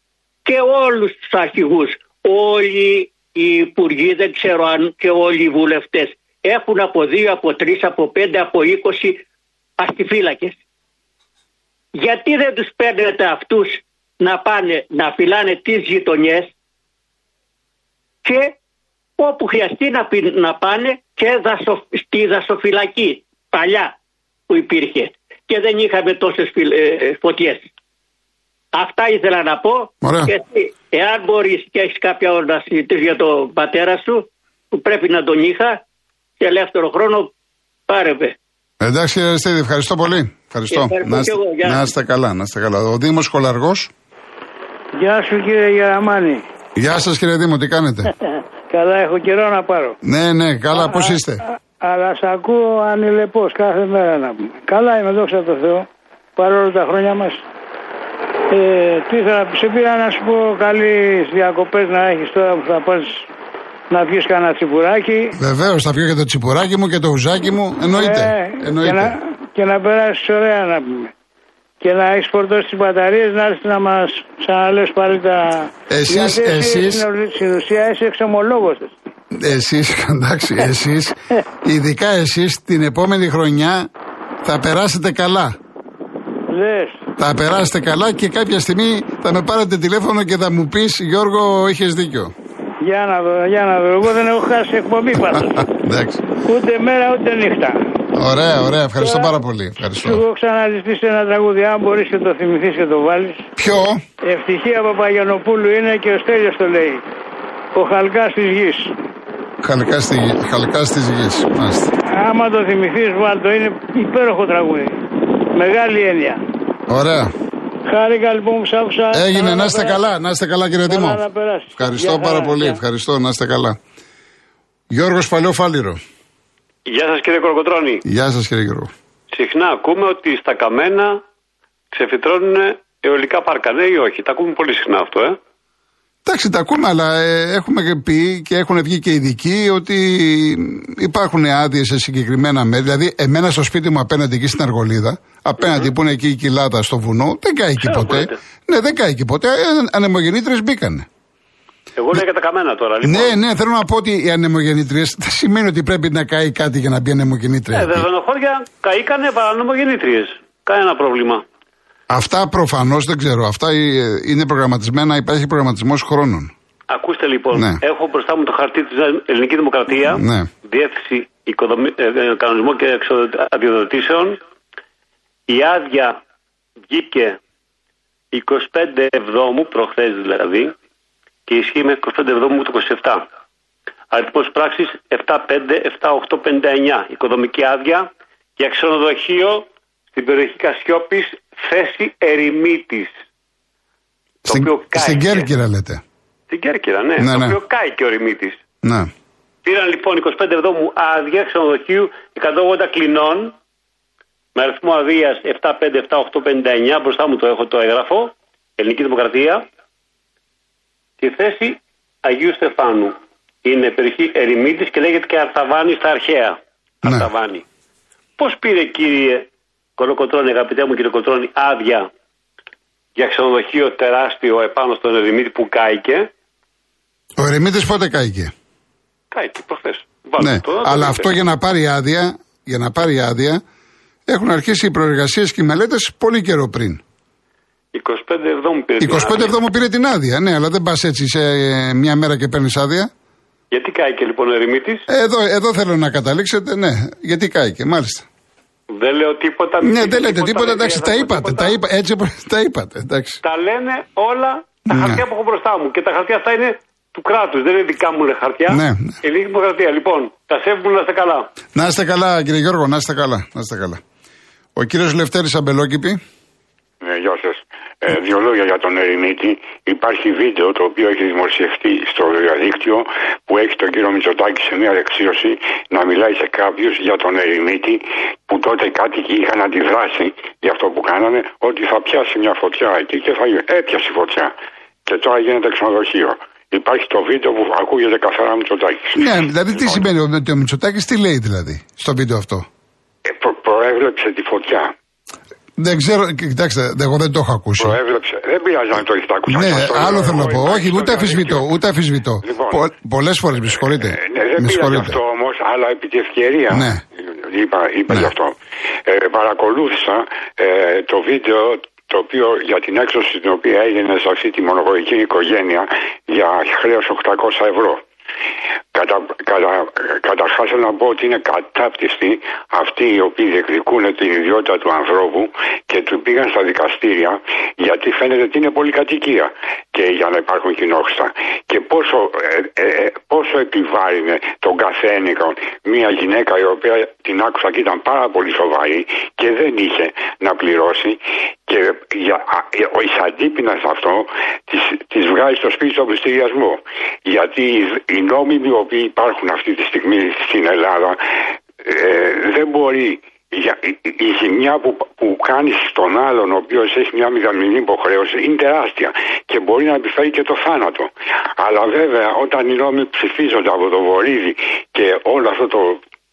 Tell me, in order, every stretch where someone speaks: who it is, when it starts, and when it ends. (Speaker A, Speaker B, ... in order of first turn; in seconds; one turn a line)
Speaker A: 0.4-9.2
Speaker A: 9.8-10.6
Speaker A: 11.9-16.5
Speaker A: 18.2-18.6
Speaker A: 19.2-23.9
Speaker A: 24.5-27.7
Speaker A: 28.7-35.8
Speaker B: 30.0-30.3
Speaker A: 36.4-37.3
Speaker A: 37.9-38.4
Speaker B: 38.8-43.9
Speaker A: 40.7-41.8
Speaker C: 45.0-46.4
Speaker B: 46.8-48.1
Speaker C: 48.7-50.0
Speaker B: 50.0-51.4
Speaker C: 50.8-51.2
Speaker C: 51.8-57.4
Speaker C: 58.5-63.3
Speaker C: 63.9-65.3
Speaker B: 65.3-69.2
Speaker C: 67.9-71.1
Speaker C: 71.8-78.9
Speaker B: 75.9-77.1
Speaker B: 79.3-83.9
Speaker B: 84.4-85.6
Speaker C: 86.5-87.0
Speaker B: 87.2-92.3
Speaker C: 92.8-95.6
Speaker B: 95.1-96.3
Speaker C: 96.4-97.8
Speaker B: 98.1-100.2
Speaker C: 99.0-99.3
Speaker C: 99.9-103.5
Speaker B: 103.6-104.0
Speaker C: 104.2-107.0
Speaker C: 107.7-108.9
Speaker B: 109.6-111.9
Speaker C: 112.1-116.4
Speaker B: 116.9-117.3
Speaker C: 117.9-120.0
Speaker B: 119.1-121.2
Speaker C: 120.9-122.8
Speaker B: 121.8-123.8
Speaker B: 124.9-126.0
Speaker D: 126.8-128.0
Speaker B: 128.0-128.9
Speaker D: 129.3-131.2
Speaker D: 131.9-135.4
Speaker B: 136.2-151.1
Speaker D: 147.8-148.3
Speaker D: 151.9-153.4
Speaker B: 153.0-158.1
Speaker D: 157.7-161.4
Speaker B: 162.1-166.5
Speaker D: 166.9-174.4
Speaker B: 167.5-167.8
Speaker B: 170.0-170.5
Speaker D: 175.5-176.2
Speaker D: 176.9-177.4
Speaker D: 178.3-180.7
Speaker D: 181.5-183.3
Speaker D: 184.1-193.1
Speaker B: 194.4-196.0
Speaker D: 194.5-195.5
Speaker D: 196.5-198.6
Speaker B: 197.2-197.6
Speaker B: 198.8-199.1
Speaker D: 199.6-203.5
Speaker D: 204.5-209.7
Speaker D: 211.2-217.6
Speaker B: 217.0-217.3
Speaker D: 218.4-219.4
Speaker D: 220.0-222.1
Speaker D: 223.2-226.3
Speaker B: 227.3-228.5
Speaker D: 229.3-231.3
Speaker B: 230.4-233.6
Speaker B: 234.3-237.0
Speaker D: 237.9-239.5
Speaker B: 239.0-243.1
Speaker D: 243.7-245.1
Speaker B: 245.1-248.3
Speaker D: 248.9-251.8
Speaker B: 249.8-253.4
Speaker D: 253.4-261.5
Speaker B: 254.9-255.2
Speaker B: 258.7-259.2
Speaker B: 261.7-264.0
Speaker B: 264.8-266.2
Speaker E: 267.0-284.5
Speaker E: 285.1-289.3
Speaker B: 289.1-292.7
Speaker E: 293.2-294.9
Speaker B: 295.8-298.0
Speaker E: 297.8-301.6
Speaker B: 299.5-305.2
Speaker E: 302.4-302.8
Speaker E: 304.0-308.5
Speaker B: 306.7-307.0
Speaker E: 309.1-318.0
Speaker E: 318.9-351.2
Speaker E: 351.8-366.0